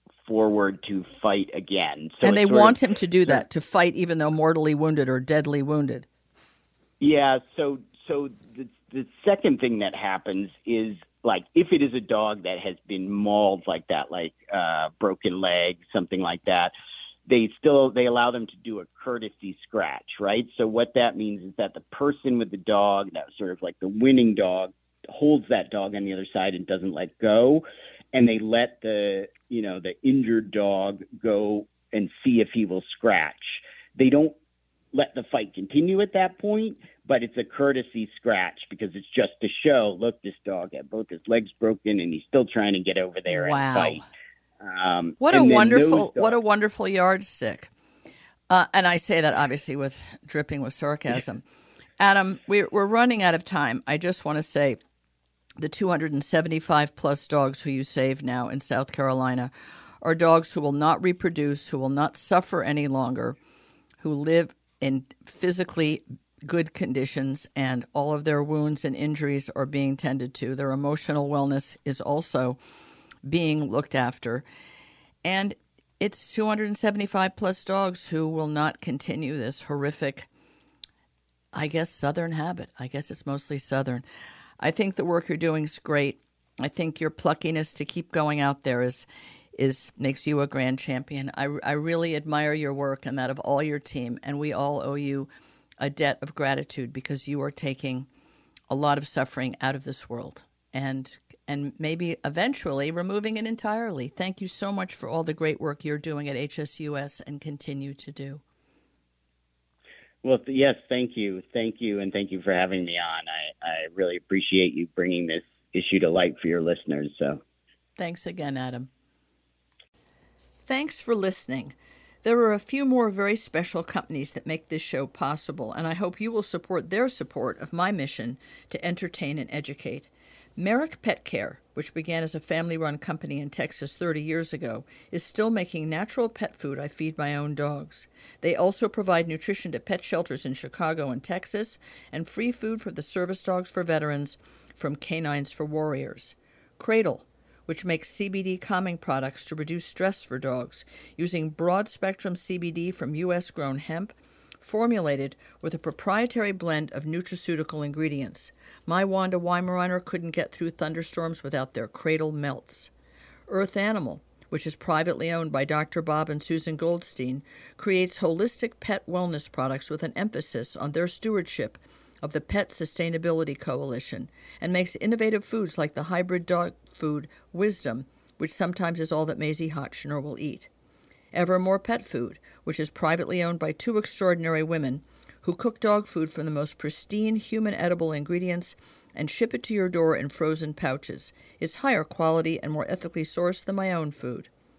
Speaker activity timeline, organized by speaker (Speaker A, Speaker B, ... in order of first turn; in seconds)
Speaker A: 0.2-3.4, 7.0-16.7, 17.3-27.6, 28.1-34.4, 34.9-44.0, 44.6-46.4, 110.2-117.4
Speaker B: 2.2-6.0, 43.3-44.1, 45.2-47.7, 48.5-51.4, 52.0-54.8, 55.6-63.4, 64.0-72.6, 73.2-74.4, 75.2-80.3, 81.5-84.0, 84.6-95.3, 95.8-98.1, 98.7-108.4, 118.0-118.9, 120.6-162.9, 163.5-180.7, 181.3-194.5